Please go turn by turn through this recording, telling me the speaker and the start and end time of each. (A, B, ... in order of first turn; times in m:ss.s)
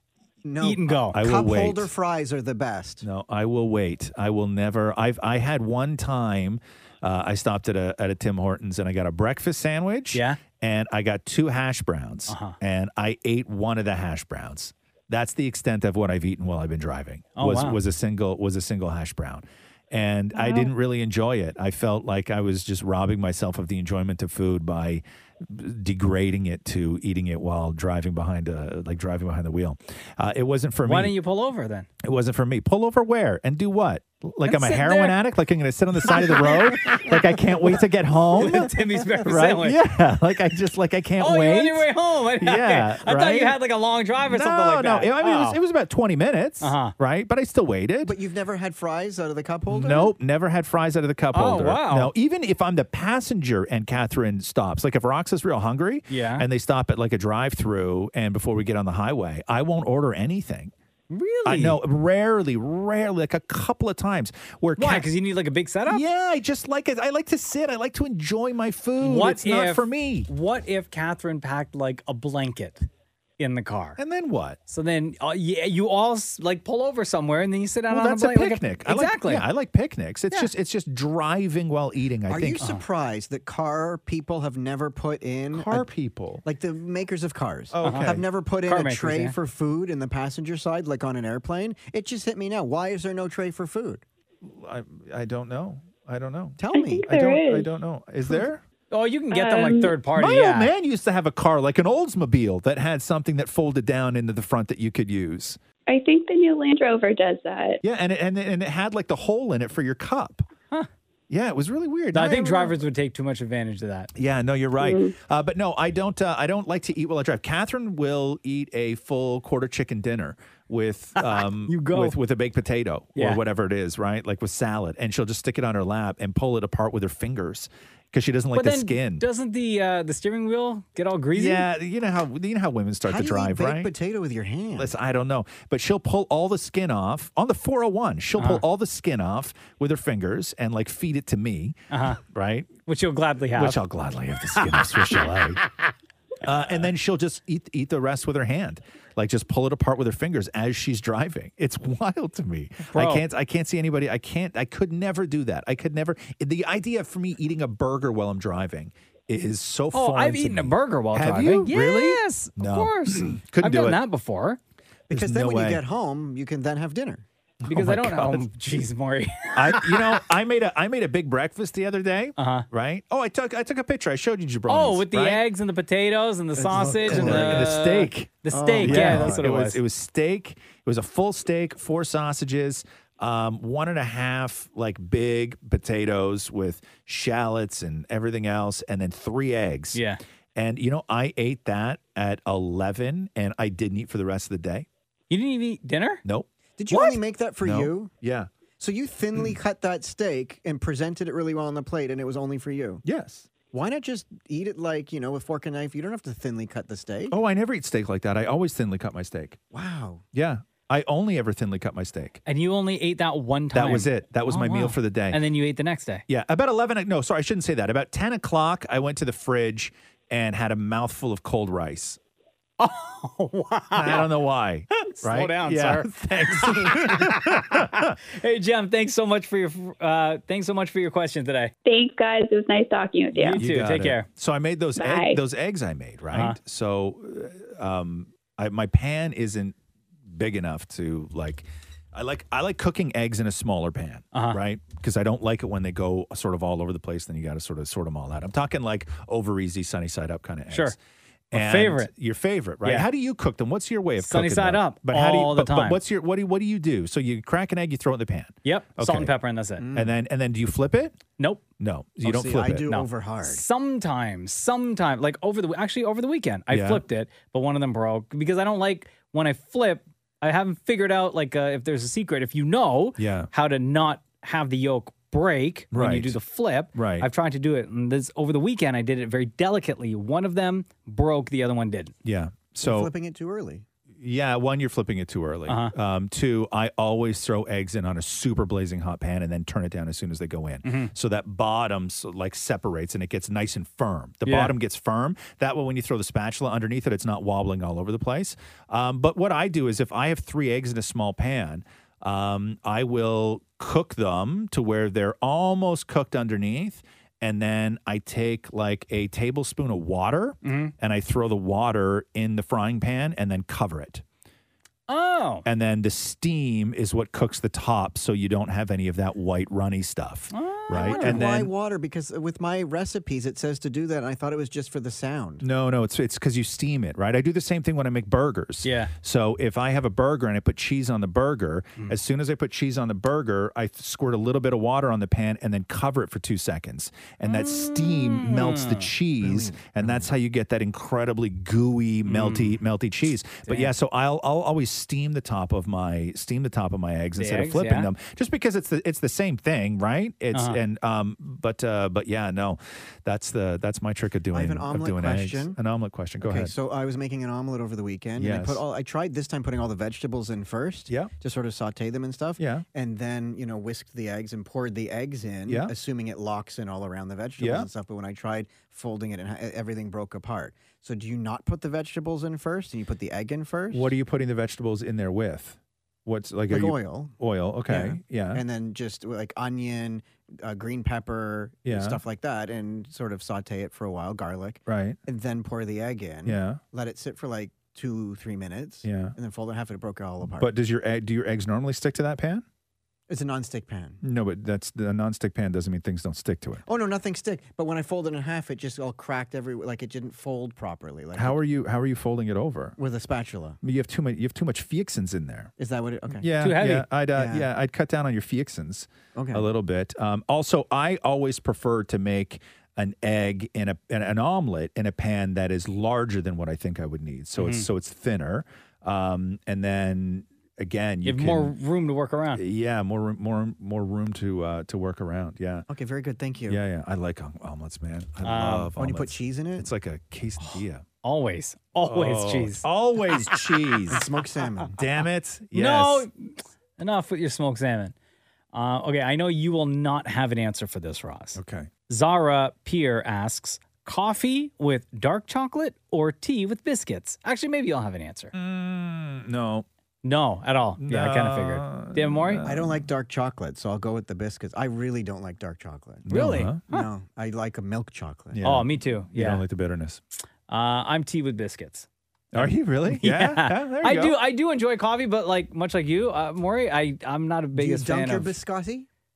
0:00.4-0:03.0 A
0:00.6-0:01.2 B
0:01.1-0:01.9 C
0:03.0-0:31.2 C
0:10.1-0:10.4 B
0:12.3-0:12.6 B
0:17.4-0:17.8 B
0:20.4-0:20.6 D
0:30.8-0:31.9 B
0:32.0-0:41.9 C
0:34.4-0:35.2 B
0:36.1-0:37.1 B
0:38.4-0:39.8 B
0:41.2-0:45.6 B
0:42.4-0:43.6 C
0:44.2-0:48.2 C
0:46.6-0:47.0 B
0:48.0-0:50.1 A
0:49.7-1:00.7 C
0:51.3-0:52.1 B
0:56.1-0:56.4 B
1:01.1-1:01.8 B
1:01.4-1:05.1 C
1:04.8-1:06.0 B
1:05.9-1:10.3 C
1:09.0-1:12.9 B
1:13.4-1:14.0 B
1:14.0-1:14.6 C
1:14.7-1:19.5 B
1:17.9-1:22.6 C
1:22.3-1:25.9 A
1:25.5-1:26.4 C
1:26.4-1:34.0 A
1:27.7-1:28.2 C
1:27.8-1:29.4 B
1:34.4-1:38.6 C
1:36.6-1:37.1 A
1:36.7-1:37.7 D
1:38.9-1:40.7 B
1:39.3-1:39.9 D
1:40.2-1:45.6 C
1:45.9-1:47.8 D
1:47.8-1:50.4 C
1:51.3-1:52.8 C
1:52.1-1:54.1 B
1:54.2-2:09.2 C
1:54.8-1:55.2 D
2:01.2-2:02.2 B
2:03.2-2:03.4 B
2:08.5-2:11.6 B
2:11.3-2:13.9 C
2:13.1-2:14.9 A
2:14.8-2:22.7 C
2:18.4-2:18.6 B
2:21.9-2:22.2 B
2:22.9-2:23.8 B
2:23.5-2:25.6 C
2:24.6-2:25.2 B
2:26.4-2:44.0 C
2:32.9-2:33.2 B
2:39.9-2:44.6 B
2:45.1-2:45.8 C
2:45.1-2:47.2 A
2:47.6-2:48.5 C
2:47.7-2:50.2 B
2:49.5-2:55.4 C
2:52.4-2:52.7 B
2:54.7-2:59.8 B
2:56.6-2:57.8 A
2:56.9-3:10.0 C
2:58.5-2:59.4 A
3:09.9-3:10.2 B
3:10.6-3:14.9 C
3:15.3-3:16.2 B
3:16.2-3:18.5 C
3:16.8-3:18.1 A
3:18.8-3:23.0 A
3:23.0-3:23.5 C
3:23.7-3:27.4 A
3:27.3-3:29.6 C
3:29.7-3:30.2 A
3:30.3-3:32.4 C
3:32.5-3:36.2 B
3:33.7-3:35.4 C
3:36.3-3:42.2 C
3:42.8-3:44.3 B
3:43.9-3:48.2 C
3:45.0-3:51.7 B
3:51.8-3:53.6 D
3:53.4-3:54.3 B
3:53.6-3:59.8 C
3:55.0-3:55.4 D
3:56.3-3:56.6 B
4:00.3-4:11.0 C
4:04.3-4:04.6 B
4:10.7-4:11.0 B
4:11.5-4:19.3 C
4:11.5-4:12.1 B
4:12.8-4:13.1 B
4:14.2-4:16.0 B
4:18.6-4:19.8 B
4:19.8-4:20.2 A
4:19.9-4:21.2 C
4:21.4-4:21.6 B
4:21.8-4:23.1 C
4:22.2-4:23.6 A
4:23.4-4:42.2 B
4:26.7-4:27.0 C
4:33.2-4:33.5 C
4:35.9-4:36.4 C
4:36.9-4:37.3 C
4:42.2-4:43.1 C
4:42.8-4:43.8 A
4:44.2-5:14.2 C
4:45.7-4:45.9 B
4:50.8-4:51.1 B
4:54.4-4:54.7 B
5:10.6-5:10.9 B
5:15.1-5:15.6 B
5:15.6-5:21.7 C
5:20.5-5:21.4 B
5:21.0-5:25.6 A
5:25.6-5:56.7 C
5:28.8-5:29.1 B
5:37.4-5:39.1 B
5:39.4-5:40.3 A
5:42.3-5:42.8 B
5:43.7-5:43.9 B
5:47.4-5:48.1 B
5:50.5-5:50.8 B
5:54.5-5:55.8 A
5:56.4-6:14.1 A
5:58.4-5:58.8 C
6:02.6-6:02.8 C
6:05.7-6:05.9 C
6:07.6-6:07.9 C
6:13.9-6:18.6 C
6:16.7-6:17.3 A
6:17.9-6:30.7 A
6:21.8-6:22.2 C
6:24.9-6:25.2 C
6:26.4-6:26.8 C
6:29.0-6:29.4 C
6:30.4-6:32.6 C
6:33.3-6:34.2 A
6:34.2-6:36.8 C
6:36.9-6:41.6 A
6:41.4-6:43.0 C
6:43.0-6:43.8 A
6:43.8-6:45.7 C
6:45.8-6:46.5 A
6:46.4-7:01.7 C
6:46.6-6:47.1 B
6:47.4-6:47.7 A
6:49.3-6:49.7 A
6:57.6-6:57.9 B
7:01.2-7:02.6 B
7:02.6-7:05.9 C
7:05.9-7:06.8 A
7:06.7-7:11.0 C
7:08.4-7:08.9 B
7:09.0-7:09.9 A
7:10.6-7:12.9 B
7:12.0-7:14.3 C
7:14.1-7:15.0 A
7:15.0-7:16.3 C
7:15.7-7:18.1 B
7:18.7-7:28.5 B
7:21.6-7:21.9 C
7:28.5-7:29.9 C
7:30.2-7:32.6 B
7:31.0-7:33.1 C
7:32.6-7:36.3 A
7:36.3-7:36.8 C
7:36.3-7:37.1 B
7:36.9-7:38.6 A
7:38.5-7:40.2 C
7:38.6-7:39.6 B
7:40.7-7:48.6 B
7:42.5-7:44.4 C
7:47.8-7:49.1 A